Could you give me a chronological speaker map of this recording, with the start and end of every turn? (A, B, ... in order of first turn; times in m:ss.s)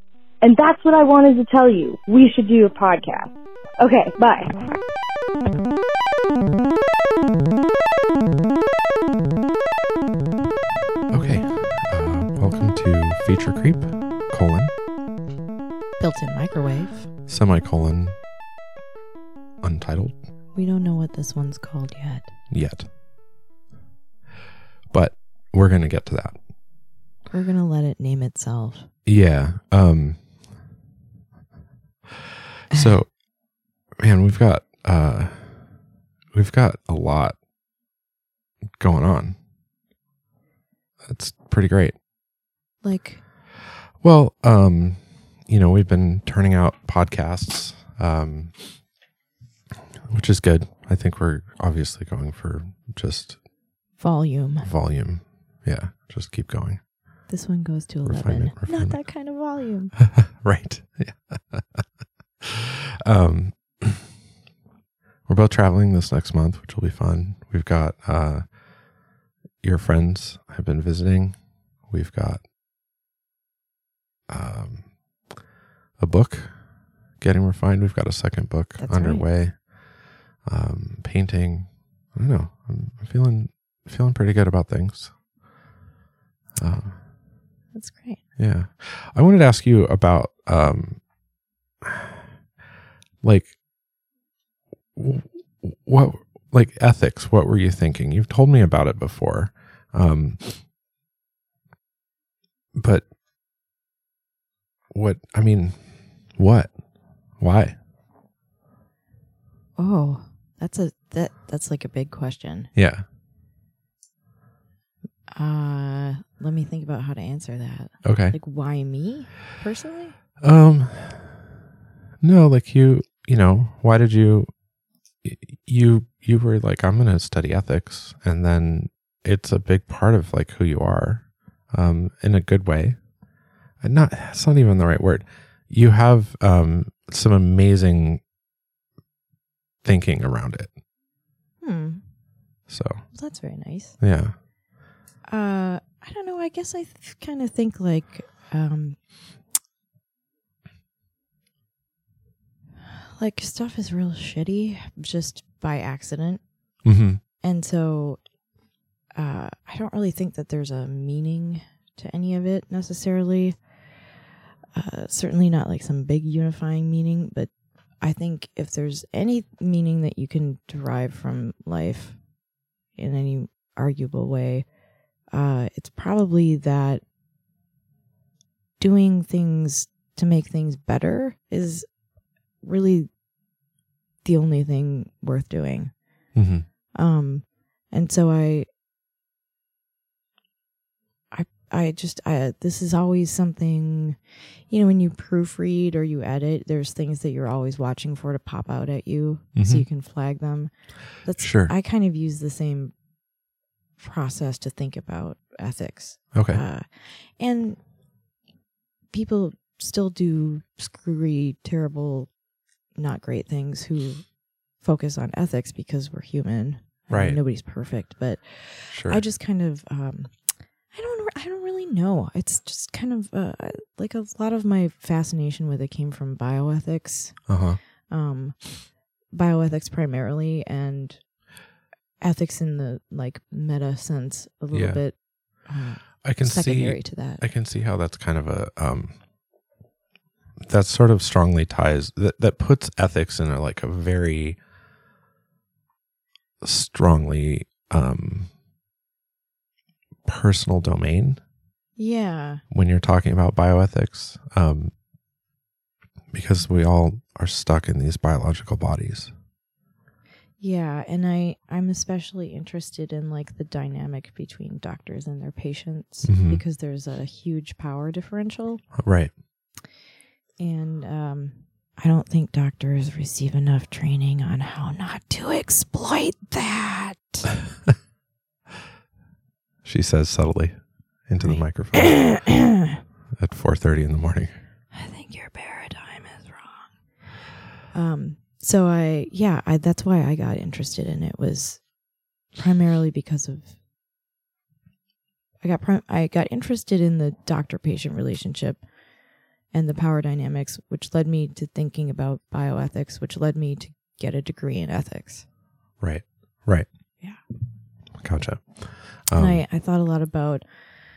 0:00.4-0:04.6 A
0:11.1-0:14.7 B
0:16.0-0:17.1 C
0:17.3-0:18.2 B
0:19.6-0:20.2 B
0:20.5-0:22.3 C
0:22.5-0:22.9 B
0:24.9-0:26.4 B
0:27.3-0:28.9 C
0:29.0-0:30.2 B
0:32.7-0:33.2 B
0:32.7-0:33.0 C
0:34.0-0:35.6 B
0:36.3-0:37.4 B
0:38.8-0:39.4 B
0:41.0-0:41.9 B
0:42.8-0:43.2 C
0:44.0-0:48.6 B
0:50.1-0:53.4 B
0:54.0-0:54.7 C
0:54.6-0:56.8 B
0:57.3-0:59.9 C
0:58.0-0:59.0 B
1:00.0-1:01.8 B
1:02.4-1:04.1 B
1:05.2-1:08.5 B
1:09.6-1:12.4 B
1:14.3-1:14.9 B
1:16.0-1:16.5 B
1:17.2-1:19.7 B
1:18.8-1:19.2 C
1:20.4-1:25.2 B
1:26.6-1:26.9 B
1:27.7-1:28.2 C
1:28.4-1:31.0 B
1:31.8-1:32.3 B
1:33.2-1:33.6 B
1:34.9-1:40.6 B
1:42.7-1:43.0 B
1:44.9-1:46.7 B
1:47.4-1:47.8 B
1:49.8-1:52.7 C
1:52.7-1:53.0 B
1:55.3-2:00.2 C
1:58.0-1:58.4 B
2:00.4-2:01.4 B
2:02.2-2:04.5 B
2:05.2-2:13.0 B
2:13.8-2:18.2 B
2:19.8-2:20.7 B
2:21.6-2:22.0 C
2:22.7-2:23.0 B
2:23.1-2:24.0 C
2:24.0-2:24.3 B
2:25.3-2:29.0 C
2:33.2-2:36.4 C
2:36.8-2:37.2 B
2:37.4-2:38.2 C
2:39.2-2:43.6 C
2:44.7-2:52.2 C
2:52.9-2:54.6 C
2:55.3-2:57.0 C
2:58.8-3:01.8 C
3:02.6-3:03.1 C
3:04.2-3:06.3 C
3:06.3-3:06.6 B
3:06.9-3:08.6 C
3:11.3-3:23.0 C
3:19.6-3:19.8 B
3:21.4-3:21.7 B
3:24.0-3:27.8 C
3:26.3-3:26.6 B
3:29.1-3:32.3 C
3:32.9-3:40.3 C
3:37.1-3:37.4 B
3:38.9-3:39.2 B
3:40.9-3:47.5 C
3:47.5-3:47.8 B
3:48.1-3:51.3 C
3:52.2-3:57.4 C
3:54.7-3:55.0 B
3:56.2-3:59.2 B
4:00.6-4:04.6 B
4:06.6-4:08.5 B
4:10.2-4:11.4 B
4:12.0-4:12.6 C
4:12.7-4:14.9 B
4:16.3-4:19.3 B
4:20.6-4:28.8 C
4:26.2-4:26.6 B
4:28.9-4:29.3 B
4:30.6-4:37.5 C
4:39.8-4:40.8 B
4:41.3-4:42.5 B
4:41.4-4:43.0 C
4:43.4-4:44.5 B
4:44.9-4:46.9 C
4:47.9-4:52.0 C
4:52.5-4:53.8 C
4:55.6-4:58.8 C
4:59.7-5:05.4 C
5:06.0-5:06.9 B
5:08.2-5:09.6 B
5:09.3-5:10.6 C